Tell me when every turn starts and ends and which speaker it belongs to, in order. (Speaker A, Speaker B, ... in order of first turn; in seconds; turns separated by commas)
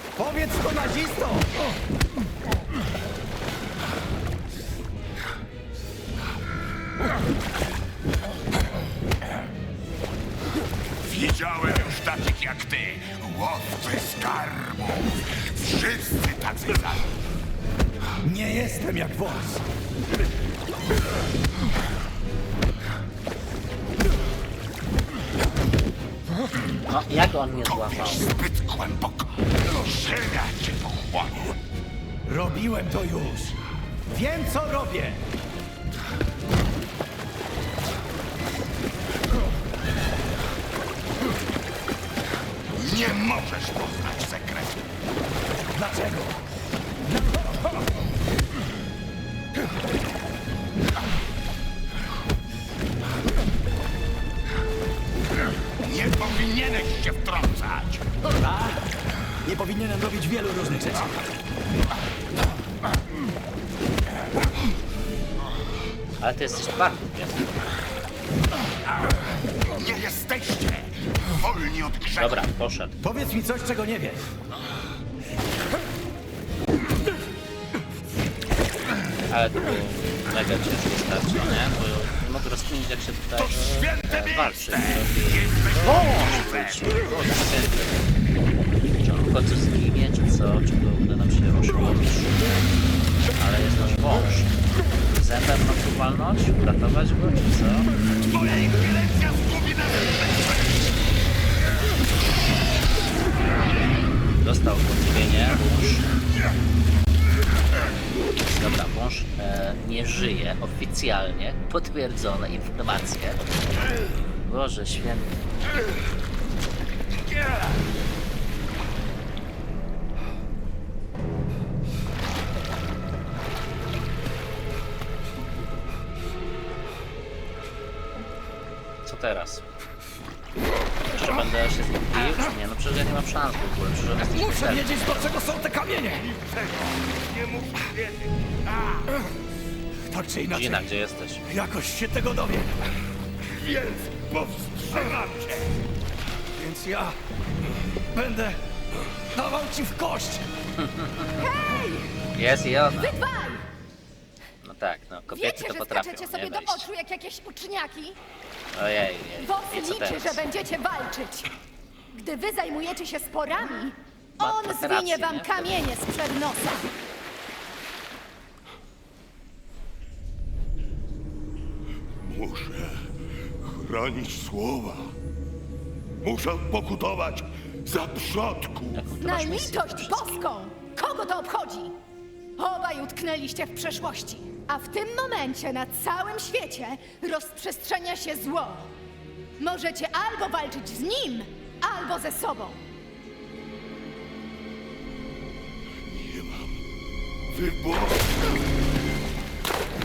Speaker A: 0.2-1.6, Speaker B: 11.0-17.1, Speaker A: 18.2-19.6, Speaker C: 26.9-28.3, Speaker B: 27.6-31.6, Speaker A: 32.3-33.6, Speaker A: 34.1-35.2, Speaker B: 42.8-44.9, Speaker A: 45.7-46.4, Speaker A: 47.1-47.6, Speaker B: 55.8-58.0, Speaker A: 58.2-58.9, Speaker A: 59.4-61.1, Speaker C: 66.2-67.5, Speaker B: 69.7-72.4, Speaker C: 72.2-73.0, Speaker A: 73.0-74.4, Speaker C: 79.3-88.0, Speaker B: 83.4-87.2, Speaker C: 89.0-92.4, Speaker C: 93.3-94.5, Speaker C: 95.1-97.9, Speaker B: 98.3-100.8, Speaker C: 104.4-106.1, Speaker C: 108.4-113.4, Speaker C: 114.4-115.3, Speaker C: 129.0-129.6, Speaker C: 131.1-135.6, Speaker A: 134.2-136.3, Speaker B: 136.2-139.1, Speaker A: 140.1-140.8, Speaker C: 140.5-141.4, Speaker A: 141.5-142.8, Speaker B: 143.4-145.7, Speaker A: 146.6-147.2, Speaker A: 148.1-148.6, Speaker A: 149.3-150.5, Speaker C: 150.8-151.4, Speaker D: 151.3-152.3, Speaker C: 152.3-153.2, Speaker D: 152.8-153.6, Speaker C: 154.6-156.9, Speaker D: 155.3-158.2, Speaker C: 158.7-160.4, Speaker D: 159.4-161.5, Speaker D: 162.1-166.9, Speaker C: 164.4-165.8, Speaker B: 172.2-173.0, Speaker B: 173.6-175.1, Speaker B: 176.2-179.0, Speaker C: 178.9-180.4, Speaker D: 179.2-181.9, Speaker D: 182.6-188.9, Speaker D: 189.6-192.8, Speaker B: 196.1-196.8, Speaker B: 197.5-198.5